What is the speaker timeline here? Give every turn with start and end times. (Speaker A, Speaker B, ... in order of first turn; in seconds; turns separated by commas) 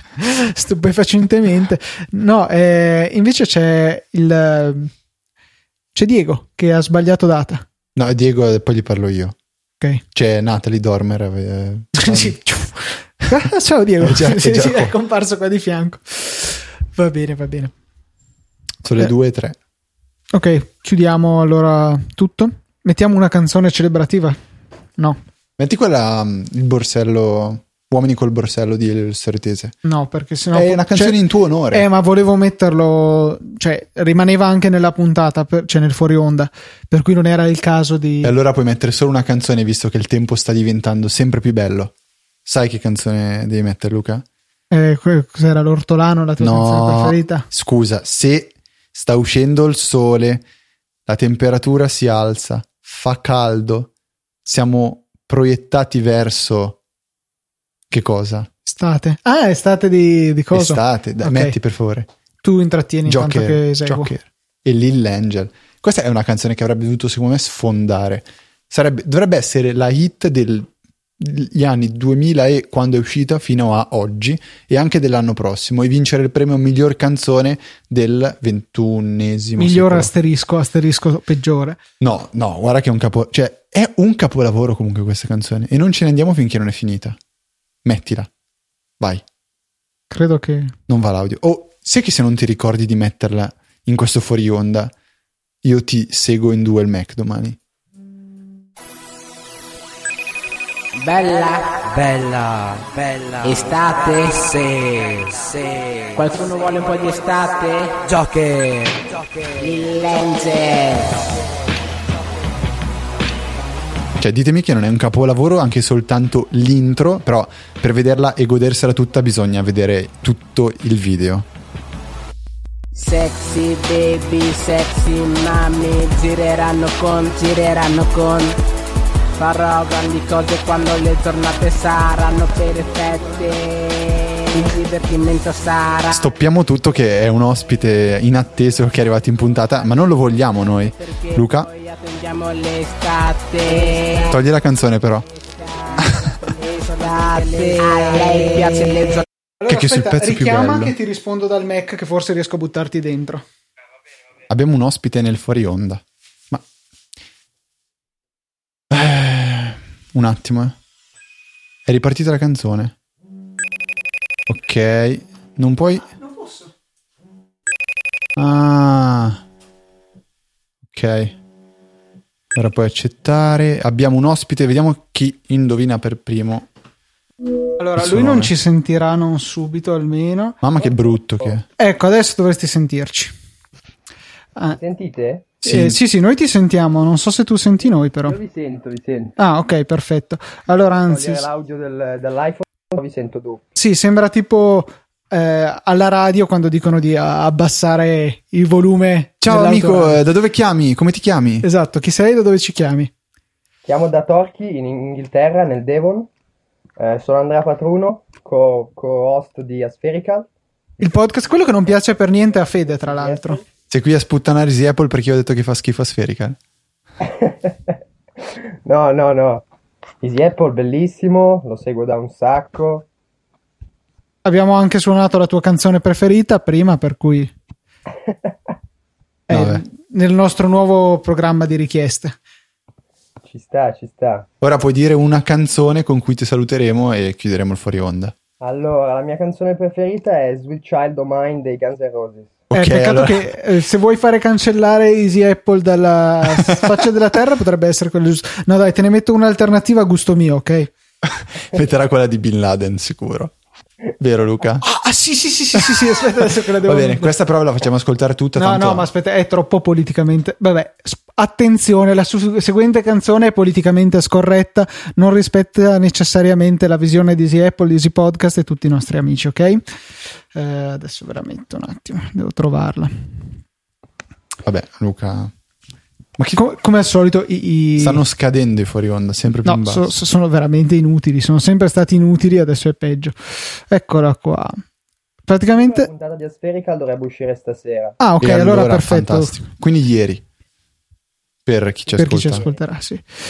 Speaker A: 0.2-4.9, Speaker A: 5.9-7.6, Speaker B: 8.0-9.3, Speaker B: 10.1-12.4, Speaker A: 11.9-17.7, Speaker B: 14.0-14.9, Speaker B: 18.8-19.6, Speaker A: 20.3-24.4, Speaker B: 25.6-29.8, Speaker A: 29.9-31.2, Speaker B: 30.5-31.9, Speaker A: 31.7-38.3, Speaker B: 38.2-41.9, Speaker B: 42.5-44.2, Speaker A: 44.7-47.4, Speaker B: 46.4-50.4, Speaker B: 51.1-53.9, Speaker B: 54.4-56.8, Speaker B: 57.9-58.5, Speaker A: 58.7-61.5, Speaker B: 60.5-62.1, Speaker A: 62.4-64.1, Speaker B: 63.1-80.1, Speaker A: 79.6-81.8, Speaker B: 82.0-87.2, Speaker B: 87.8-88.3, Speaker A: 90.1-90.7, Speaker B: 90.9-94.9, Speaker B: 95.6-97.6, Speaker C: 100.9-101.8, Speaker D: 101.9-103.9, Speaker C: 103.4-104.7, Speaker D: 104.5-106.2, Speaker C: 106.2-108.0, Speaker D: 108.0-109.5, Speaker C: 109.6-111.2, Speaker B: 114.2-121.4, Speaker C: 122.9-128.6, Speaker C: 129.4-136.2, Speaker B: 136.1-141.7, Speaker C: 141.0-144.4, Speaker B: 144.3-145.2, Speaker C: 145.4-149.2, Speaker A: 149.6-153.4, Speaker B: 149.7-150.9, Speaker B: 154.5-156.6, Speaker B: 158.9-160.8, Speaker B: 161.9-162.9, Speaker B: 164.5-166.1, Speaker A: 166.2-166.7, Speaker B: 168.4-169.4, Speaker B: 170.9-171.4, Speaker B: 172.6-176.7, Speaker A: 177.8-180.6, Speaker B: 178.0-178.5, Speaker B: 180.6-181.7, Speaker E: 180.8-181.6, Speaker A: 181.8-183.3, Speaker E: 184.7-185.5, Speaker B: 185.6-186.0, Speaker A: 185.6-188.4, Speaker E: 188.2-189.4, Speaker A: 189.4-191.4, Speaker E: 191.0-193.6, Speaker A: 193.8-200.2, Speaker B: 199.4-201.7, Speaker A: 201.6-203.1, Speaker E: 203.8-206.3, Speaker E: 207.0-210.5, Speaker A: 211.0-213.6, Speaker E: 212.9-213.6, Speaker B: 213.9-216.6, Speaker E: 217.2-218.0, Speaker E: 218.8-219.7, Speaker E: 220.2-223.1, Speaker A: 224.4-227.5, Speaker E: 228.3-228.5, Speaker A: 229.5-232.4, Speaker B: 229.5-229.8, Speaker E: 233.4-234.5, Speaker B: 234.6-238.3, Speaker E: 238.6-242.6, Speaker B: 242.7-243.4, Speaker A: 242.7-250.9, Speaker B: 246.6-247.0, Speaker B: 251.2-253.5, Speaker B: 254.2-254.9, Speaker A: 254.8-257.3, Speaker B: 256.8-259.1, Speaker A: 258.6-269.8, Speaker A: 270.5-273.1, Speaker B: 274.6-275.5, Speaker B: 276.4-276.6, Speaker A: 276.6-278.2, Speaker B: 278.0-280.1, Speaker A: 279.6-284.8, Speaker A: 285.5-286.1, Speaker E: 285.7-288.2, Speaker A: 288.2-289.6, Speaker B: 288.4-290.4, Speaker B: 291.6-292.6, Speaker A: 292.1-293.2, Speaker E: 292.2-292.8